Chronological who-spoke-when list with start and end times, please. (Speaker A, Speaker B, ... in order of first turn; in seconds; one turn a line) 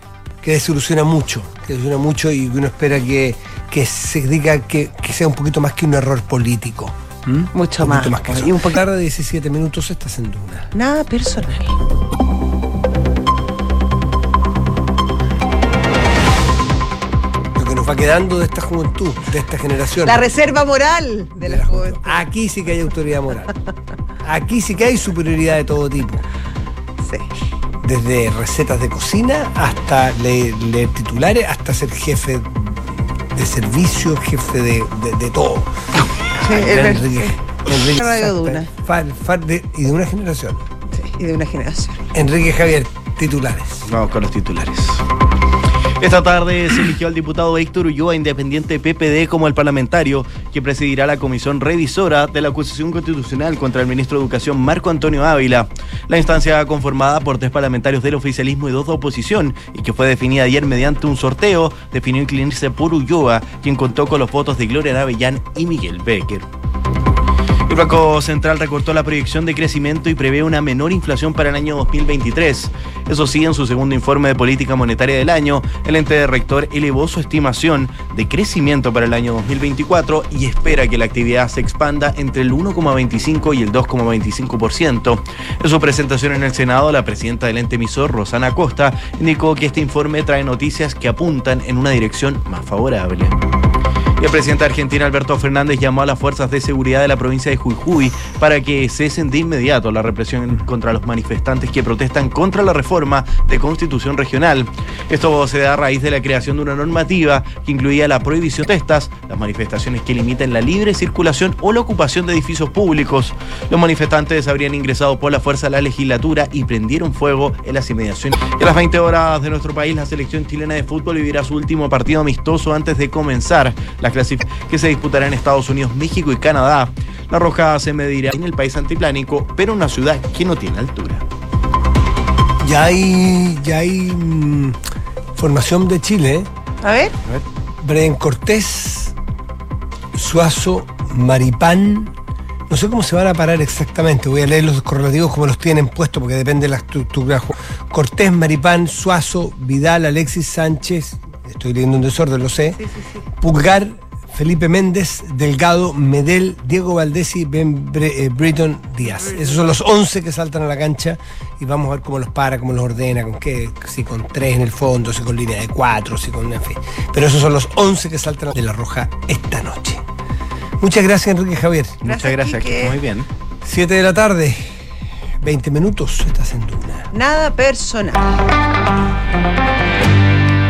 Speaker A: 0.4-10.7
Speaker B: 7.5-8.8
Speaker B: 10.7-11.8
Speaker A: 17.6-20.3
Speaker B: 20.0-22.2
Speaker A: 21.4-23.5
Speaker A: 24.2-26.2
Speaker A: 27.8-40.6
Speaker B: 36.4-38.7
Speaker B: 40.9-42.0
Speaker A: 42.1-43.9
Speaker C: 43.9-45.1
Speaker C: 46.0-66.5
Speaker C: 67.7-93.4
Speaker C: 94.2-131.2
Speaker A: 132.6-134.8
Speaker A: 135.3-136.5
Speaker B: 136.8-137.1
Speaker A: 137.8-139.1
Speaker A: 140.1-142.1
Speaker A: 142.7-152.8
Speaker B: 152.8-153.3
Speaker A: 153.4-170.0
Speaker B: 159.0-159.7
Speaker A: 170.8-172.0
Speaker C: 172.0-173.3
Speaker B: 172.0-173.0
Speaker A: 173.6-174.6
Speaker A: 175.4-177.1
Speaker B: 177.1-178.4